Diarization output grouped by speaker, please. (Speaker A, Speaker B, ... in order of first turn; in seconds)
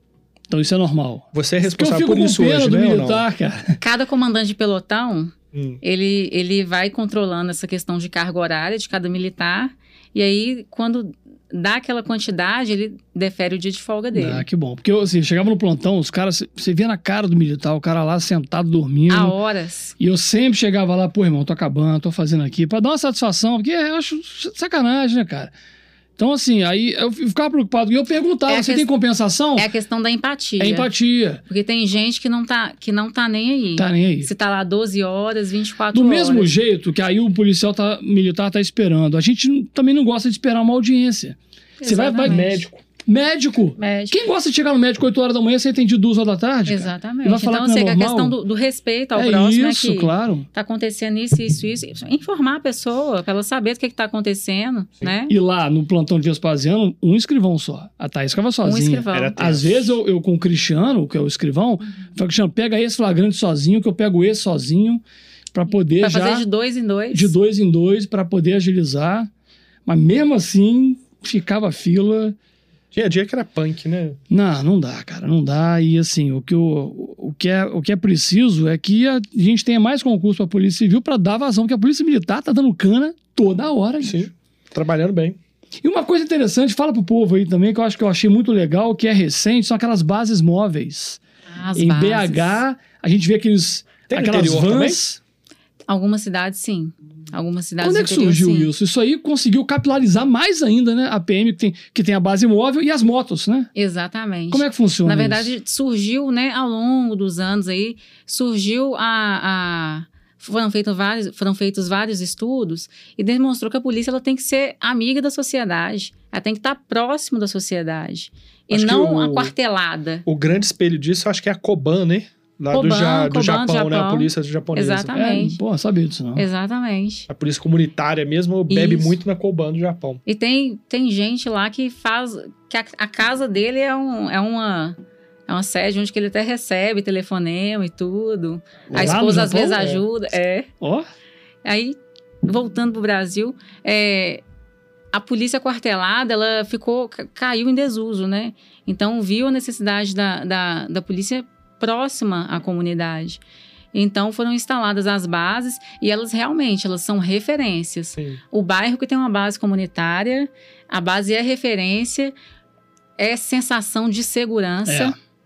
Speaker A: 0.5-3.8, 14.1-19.4, 20.0-25.5, 26.2-29.7, 30.6-31.4, 33.8-34.3, 35.9-48.4, 49.1-50.5, 55.3-65.0, 65.5-66.5, 67.1-69.3, 69.8-72.3, 74.3-84.3, 85.8-91.2, 91.8-95.2, 97.8-103.7, 104.5-105.5, 125.1-126.5, 138.9-140.0, 140.8-141.1, 164.9-165.1
Speaker B: 1.3-3.2, 5.5-5.8, 42.2-42.8, 59.1-60.0, 72.9-74.2, 84.0-85.4, 94.1-95.0, 118.7-119.5, 120.2-125.1, 127.3-130.2, 138.9-139.2
Speaker C: 3.8-14.4, 19.1-19.9, 28.5-28.9, 29.6-30.9, 31.5-36.5, 41.8-42.6, 43.8-44.2, 46.7-55.3, 58.6-59.4, 66.0-67.3, 91.5-92.6, 95.9-98.7, 103.7-120.2, 122.7-125.6, 126.3-127.3, 128.7-129.2, 130.2-135.0, 135.5-140.7, 141.6-144.4, 145.1-153.4, 153.9-162.3, 163.2-165.1